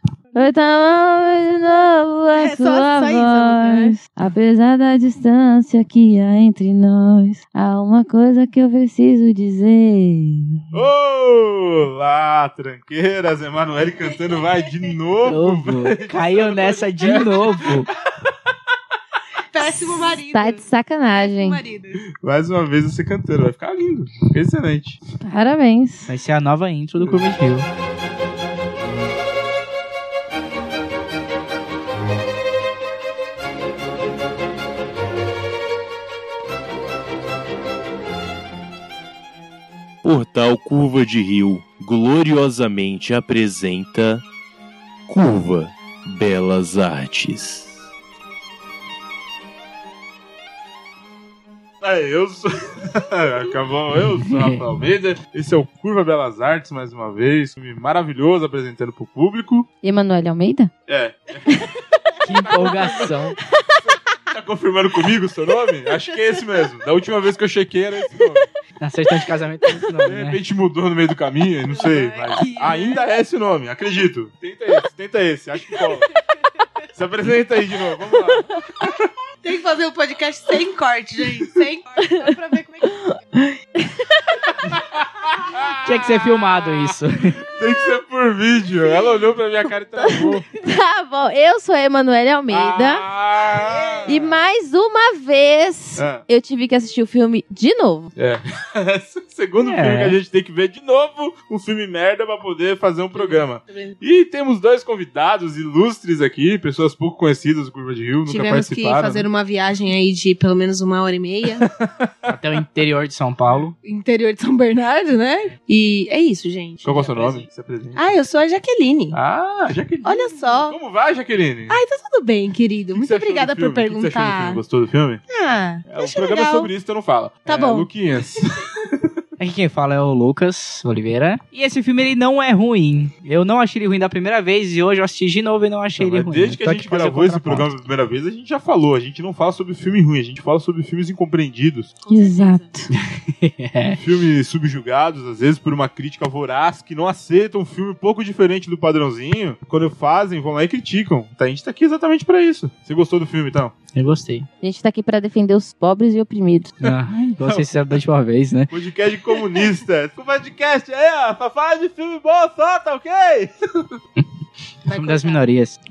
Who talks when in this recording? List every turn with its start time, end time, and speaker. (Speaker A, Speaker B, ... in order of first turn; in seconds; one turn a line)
Speaker A: 0.3-10.6
Speaker B: 2.3-4.0
Speaker C: 10.7-18.5
Speaker D: 15.2-17.9
Speaker B: 19.5-22.0
Speaker A: 19.9-21.6
Speaker C: 22.2-25.0
Speaker A: 25.2-26.1
Speaker D: 26.1-27.7
Speaker E: 40.0-44.2
Speaker E: 45.1-47.7
Speaker C: 51.8-59.7
Speaker D: 54.2-54.6
Speaker A: 59.8-60.7
Speaker C: 60.9-61.7
Speaker D: 62.2-63.4
Speaker C: 62.4-63.1
Speaker C: 63.9-68.5
Speaker D: 68.8-70.4
Speaker C: 70.0-76.1
Speaker B: 71.7-73.0
Speaker C: 76.9-79.0
Speaker B: 79.4-83.0
Speaker A: 82.0-84.5
Speaker C: 84.7-86.9
Speaker D: 85.8-87.4
Speaker C: 87.5-90.4
Speaker A: 90.0-93.0
Speaker C: 92.5-94.3
Speaker B: 93.6-94.1
Speaker A: 94.1-98.1
Speaker C: 96.0-96.2
Speaker C: 98.2-109.3
Speaker D: 99.6-100.2
Speaker B: 103.2-104.0
Speaker B: 108.3-111.7
Speaker C: 111.6-112.4
Speaker D: 112.3-113.7
Speaker B: 113.8-116.9
Speaker C: 116.8-118.0
Speaker D: 116.9-117.5
Speaker B: 118.0-119.2
Speaker C: 119.1-121.8
Speaker B: 120.0-120.8
Speaker B: 121.7-124.6
Speaker C: 122.9-125.2
Speaker B: 125.3-126.7
Speaker C: 125.9-129.2
Speaker B: 127.5-127.9
Speaker D: 129.4-137.7
Speaker C: 136.0-141.9
Speaker B: 142.0-142.7
Speaker A: 142.1-142.9
Speaker D: 142.9-144.0
Speaker C: 143.9-153.7
Speaker D: 153.9-154.5
Speaker A: 154.6-156.7
Speaker D: 156.8-158.7
Speaker C: 156.8-158.0
Speaker C: 158.7-163.9
Speaker B: 164.9-165.4
Speaker D: 164.9-165.8